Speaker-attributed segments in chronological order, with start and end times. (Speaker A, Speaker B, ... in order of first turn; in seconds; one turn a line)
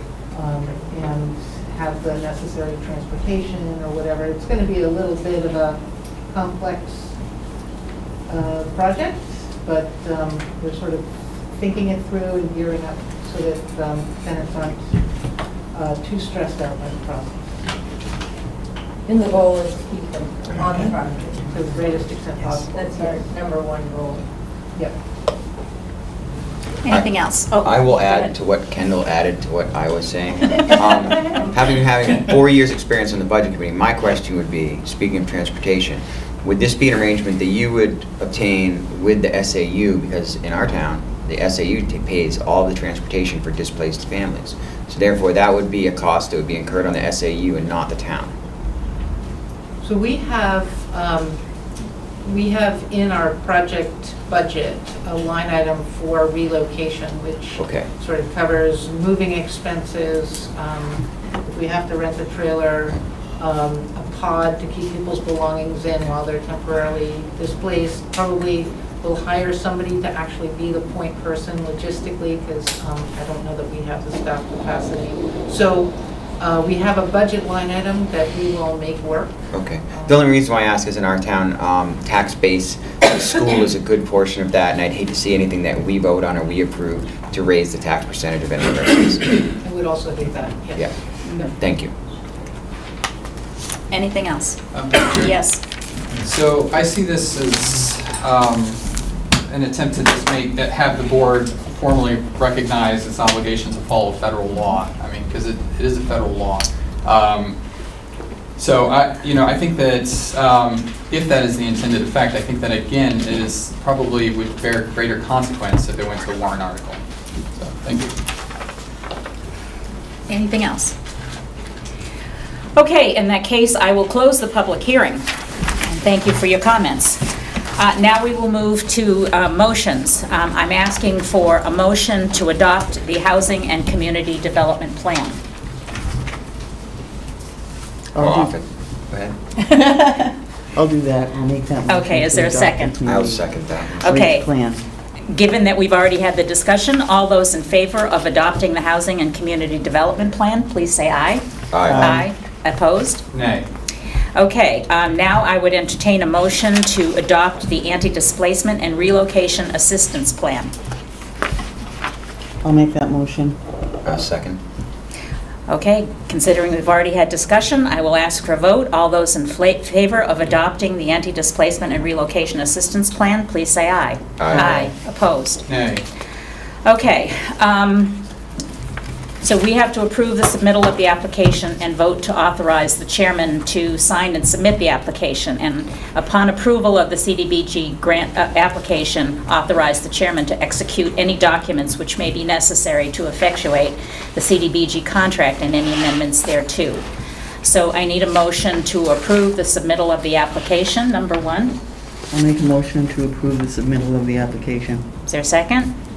Speaker A: 0.3-7.1
Speaker A: 8.3-14.9
Speaker A: 15.7-17.6
Speaker B: 19.1-21.4
Speaker A: 21.4-23.3
Speaker B: 22.7-24.2
Speaker C: 26.8-28.3
Speaker D: 26.9-48.3
Speaker A: 49.8-51.4
Speaker A: 52.2-79.4
Speaker D: 57.6-57.9
Speaker D: 79.5-89.3
Speaker A: 89.6-91.5
Speaker C: 91.2-91.5
Speaker D: 91.6-91.9
Speaker C: 93.9-94.6
Speaker E: 94.7-95.4
Speaker C: 95.1-95.6
Speaker E: 96.2-98.8
Speaker E: 99.5-107.6
Speaker E: 108.6-117.0
Speaker E: 117.5-118.1
Speaker C: 120.3-120.9
Speaker C: 122.8-125.2
Speaker C: 125.8-127.2
Speaker C: 127.8-135.4
Speaker F: 138.1-138.5
Speaker D: 138.2-139.3
Speaker F: 140.7-143.5
Speaker C: 141.9-143.0
Speaker D: 143.1-144.2
Speaker F: 144.0-144.8
Speaker C: 144.0-144.5
Speaker C: 145.3-153.2
Speaker D: 151.7-152.2
Speaker F: 151.9-152.2
Speaker E: 153.3-153.7
Speaker C: 154.3-160.7
Speaker F: 162.6-163.6
Speaker D: 164.0-164.6
Speaker C: 165.7-175.6
Speaker D: 174.4-174.9
Speaker E: 175.7-176.0
Speaker C: 176.8-178.2
Speaker C: 179.4-197.0
Speaker C: 197.6-201.7
Speaker F: 202.3-205.1
Speaker C: 205.2-205.9